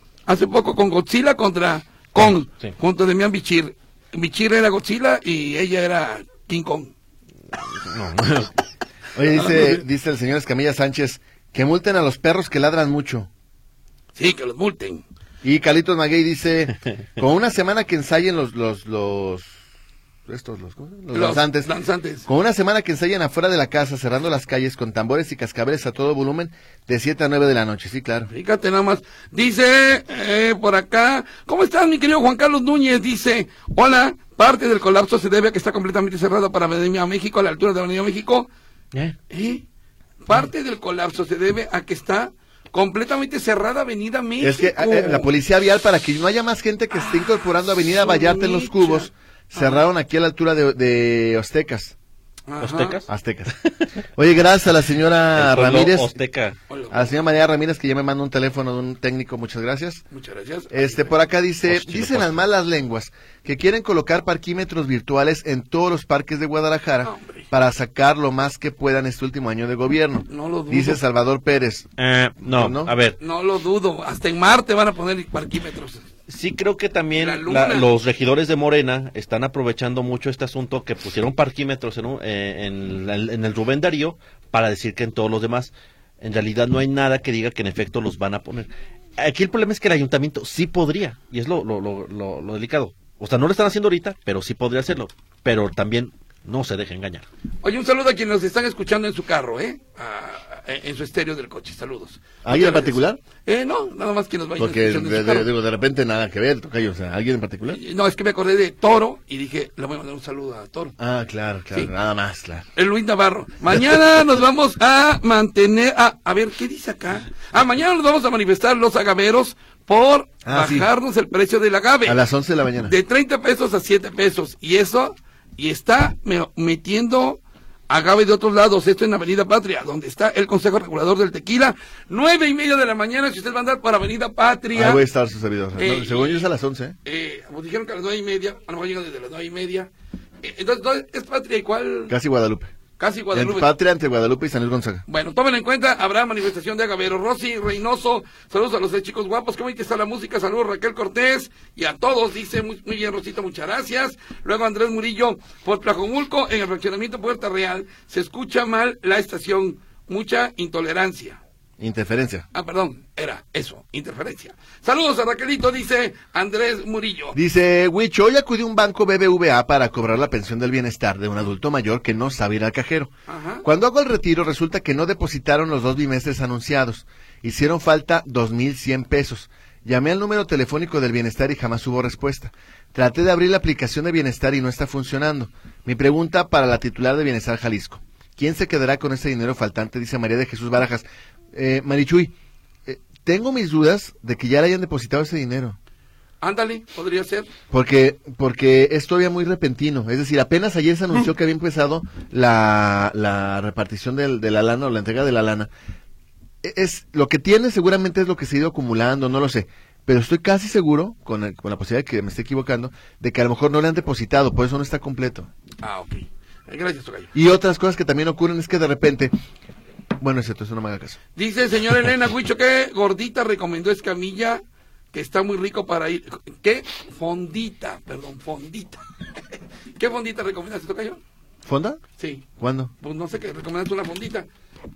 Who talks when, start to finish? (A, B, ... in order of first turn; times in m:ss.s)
0:00.3-0:06.9 A
0:02.2-0:02.7 B
0:07.8-0:08.5 B
0:09.1-0:13.3 C
0:14.2-0:15.0 A
0:15.4-0:19.5 C
0:20.3-0:21.7 C
0:21.1-0:22.3 A
0:22.3-0:28.3 C
0:28.3-0:38.5 A
0:39.3-0:39.6 A
0:40.2-0:45.3 A
0:44.4-0:51.9 C
0:47.9-0:49.8 A
0:52.5-0:53.0 A
0:52.6-0:53.1 B
0:53.1-0:53.5 C
0:54.2-0:56.1 C
0:55.3-0:56.6 B
0:56.7-0:57.1 A
0:56.9-1:00.0 C
1:00.1-1:01.1 A
1:00.7-1:11.9 C
1:01.7-1:02.4 B
1:07.0-1:07.4 A
1:10.3-1:11.0 A
1:12.0-1:13.2 B
1:12.4-1:12.9 C
1:13.2-1:16.0 A
1:16.3-1:37.2 B
1:17.1-1:17.9 A
1:37.6-1:45.5 A
1:42.4-1:43.2 C
1:44.6-1:47.8 C
1:47.7-1:50.9 A
1:51.0-1:52.6 C
1:52.7-2:02.2 A
2:00.4-2:00.9 C
2:02.0-2:02.9 C
2:02.8-2:15.0 A
2:14.7-2:17.0 C
2:15.8-2:16.5 A
2:17.0-2:19.9 A
2:20.4-2:22.1 A
2:22.1-2:22.7 C
2:23.0-2:23.7 A
2:23.3-2:25.0 C
2:25.1-2:41.4 A
2:41.8-2:42.4 C
2:42.5-2:47.4 A
2:47.3-2:53.1 C
2:53.3-2:53.6 A
2:53.6-3:12.3 C
3:12.8-3:15.8 C
3:16.4-3:17.5 A
3:17.7-3:25.7 C
3:26.6-3:35.5 C
3:35.8-3:37.3 A
3:37.3-3:39.3 C
3:40.2-3:41.2 C
3:41.4-3:44.6 A
3:45.1-3:49.0 A
3:50.0-3:51.2 A
3:51.6-3:52.0 C
3:52.2-3:52.4 A
3:52.6-3:52.9 C
3:53.0-3:54.5 A